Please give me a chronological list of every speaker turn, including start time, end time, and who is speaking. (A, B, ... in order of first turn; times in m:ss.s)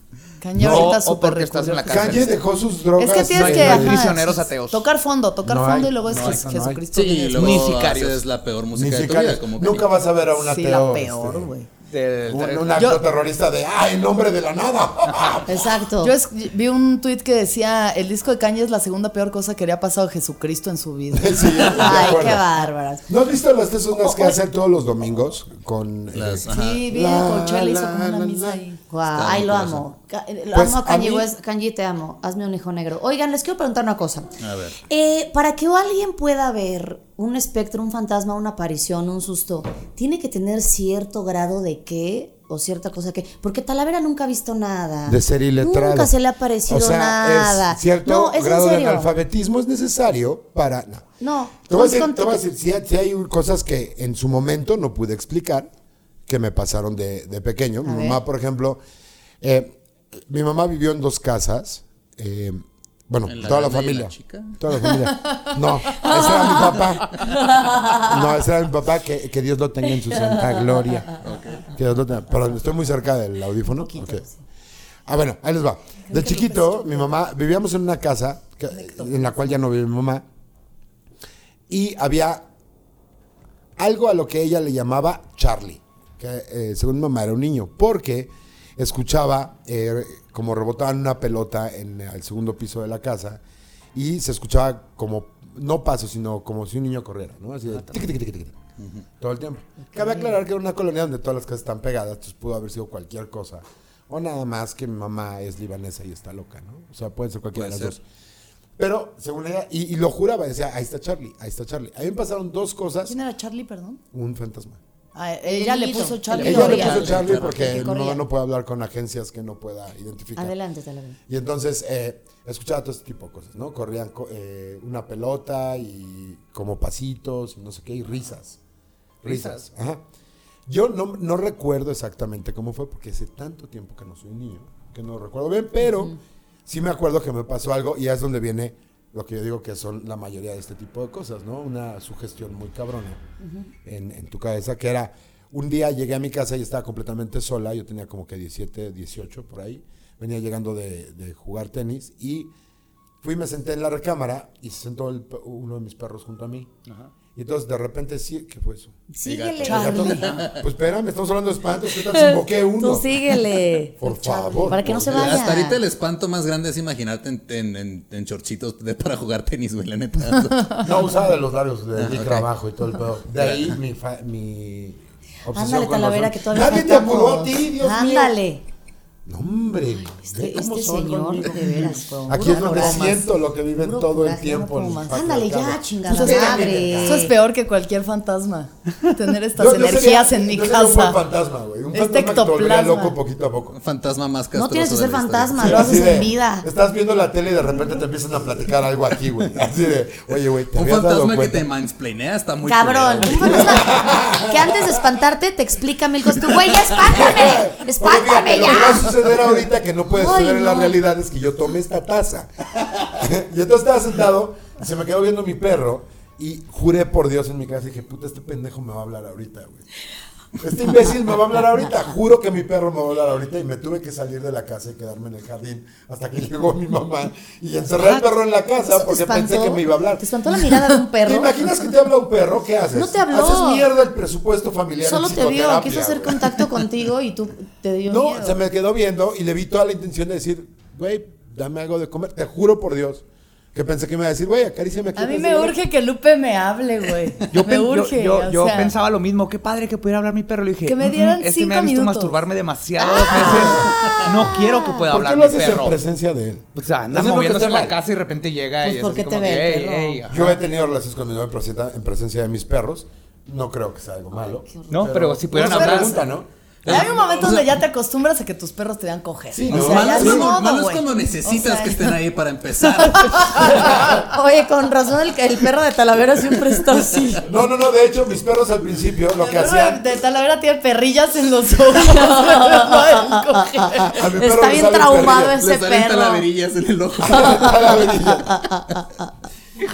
0:00.4-0:02.3 A
0:00.6-0:01.0 B
0:00.6-0:02.3 C
0:01.9-0:04.1 B
0:03.0-0:07.8 A
0:03.3-0:04.9 C
0:05.4-0:06.8 B
0:06.1-0:06.5 C
0:06.9-0:09.9 D
0:07.3-0:08.2 C
0:08.7-0:11.5 B
0:10.3-0:11.7 A
0:11.8-0:12.9 C
0:12.3-0:15.8 B
0:12.8-0:13.0 A
0:15.5-0:16.1 E
0:16.0-0:22.3 A
0:21.1-0:22.5 B
0:21.7-0:23.0 E
0:23.0-0:28.6 B
0:24.1-0:24.3 E
0:26.1-0:26.9 D
0:26.4-0:28.8 A
0:28.9-0:34.3 E
0:29.1-0:29.8 D
0:30.5-0:31.3 B
0:34.4-0:34.8 D
0:34.9-0:49.1 E
0:45.1-0:46.1 B
0:46.7-0:51.1 B
0:51.2-0:52.4 E
0:51.6-0:55.7 B
0:56.3-0:58.8 B
0:57.8-0:58.2 E
0:59.4-1:07.2 B
1:03.3-1:04.6 D
1:06.0-1:08.2 E
1:08.0-1:11.1 B
1:10.1-1:10.8 E
1:11.2-1:11.7 D
1:11.6-1:14.2 B
1:13.8-1:14.4 E
1:15.0-1:20.2 B
1:16.1-1:17.2 A
1:18.7-1:19.4 A
1:21.7-1:22.5 B
1:23.8-1:33.4 B
1:33.9-1:38.6 B
1:39.2-1:48.0 B
1:47.6-1:47.9 D
1:48.8-1:53.2 B
1:53.1-1:54.0 A
1:54.1-1:54.8 B
1:55.1-1:57.2 A
1:55.4-1:58.2 E
1:56.4-2:00.6 B
1:56.5-1:57.8 D
2:00.4-2:01.2 E
2:01.3-2:08.6 B
2:09.2-2:10.0 B
2:09.2-2:09.6 C
2:10.7-2:16.1 B
2:16.6-2:23.2 B
2:23.8-2:32.5 B
2:33.2-2:36.7 B
2:37.4-2:39.0 B
2:39.1-2:40.4 E
2:39.2-2:40.6 D
2:39.6-2:43.4 B
2:39.7-2:40.3 A
2:42.0-2:45.8 E
2:44.0-2:45.5 B
2:44.8-2:50.8 D
2:50.8-2:58.4 B
2:52.0-2:52.5 D
2:53.4-2:53.8 D
2:55.5-2:58.6 E
2:59.2-3:07.3 B
3:00.1-3:07.3 E
3:01.9-3:02.1 A
3:06.1-3:11.2 A
3:09.6-3:13.8 B
3:11.9-3:13.2 A
3:13.7-3:15.8 D
3:14.5-3:16.7 E
3:15.6-3:21.6 B
3:20.7-3:23.8 D
3:22.6-3:29.3 E
3:23.5-3:25.0 B
3:27.0-3:39.8 B
3:30.1-3:31.0 E
3:40.6-3:50.3 B
3:48.9-3:51.5 E
3:51.2-3:56.7 B
3:52.9-3:53.9 E
3:55.0-3:58.6 E
3:58.1-4:05.8 B
4:05.2-4:08.9 A
4:07.5-4:16.0 C
4:10.9-4:12.4 A
4:13.2-4:15.0 E
4:13.4-4:14.1 B
4:15.1-4:18.0 B
4:16.8-4:20.6 C
4:18.8-4:20.2 E
4:20.3-4:26.9 B
4:24.8-4:25.1 E
4:24.9-4:26.2 C
4:25.5-4:26.2 A
4:26.8-4:27.8 D
4:26.8-4:32.2 A
4:29.5-4:30.5 B
4:29.7-4:33.8 D
4:33.4-4:37.5 E
4:37.4-4:40.0 B
4:39.4-4:44.2 A
4:42.1-4:46.5 E
4:44.0-4:45.6 B
4:45.6-4:48.0 D
4:47.2-4:48.6 B
4:47.4-4:49.3 E